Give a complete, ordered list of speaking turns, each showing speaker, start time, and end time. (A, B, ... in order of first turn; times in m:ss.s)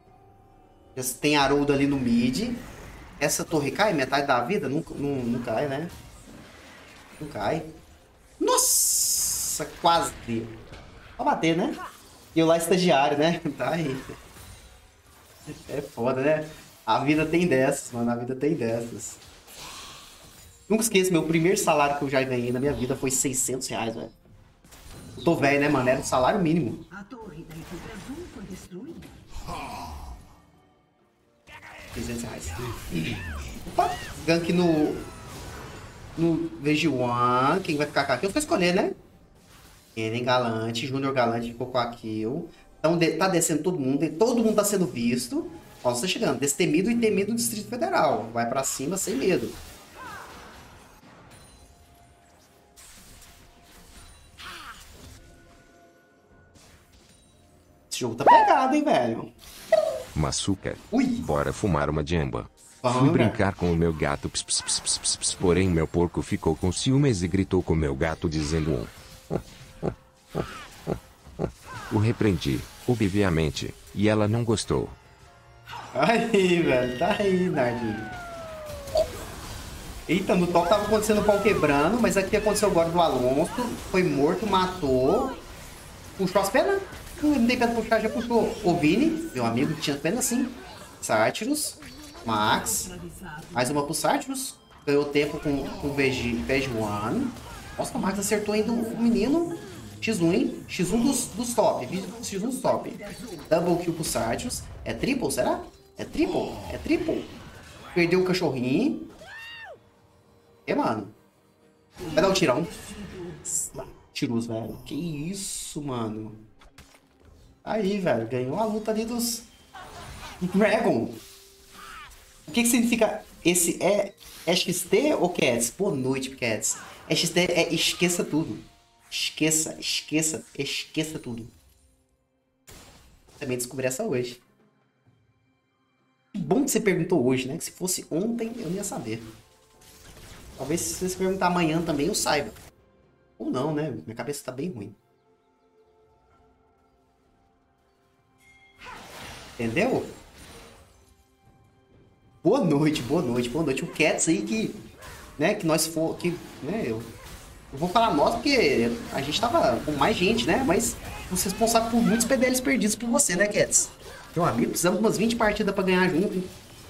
0:01.0-0:02.7 A
0:03.2-0:05.9 A
0:07.2-0:07.8 A
0:08.4-0:10.6 A
0:11.2-0:11.8 A
0:12.3-0:14.1 A
0:15.5-0:19.2 A
0:20.7-0:24.1 A
0:25.2-0:26.9 A
0:26.9-0:29.2 B
0:31.9-0:35.1 A
0:36.2-0:39.0 A
0:40.0-0:49.6 A
0:57.9-0:59.3 A
1:00.2-1:15.0 C
1:00.9-1:01.3 A
1:02.8-1:03.4 A
1:15.9-1:18.1 A
1:20.1-1:25.4 A
1:26.2-1:32.9 A
1:32.2-1:33.8 B
1:33.5-1:47.4 A
1:38.2-1:39.5 B
1:41.9-1:43.5 B
1:47.9-1:49.1 A
1:50.7-1:51.2 A
1:52.0-1:53.4 B
1:52.1-1:52.7 A
1:53.4-1:56.5 A
1:57.6-1:59.5 A
2:00.4-2:01.2 A
2:02.5-2:11.5 A
2:13.4-2:14.4 A
2:16.3-2:19.4 A
2:20.6-2:22.6 A
2:23.4-2:25.0 A
2:29.6-2:30.2 A
2:32.4-2:34.9 A
2:35.4-2:37.2 A
2:37.7-2:46.5 A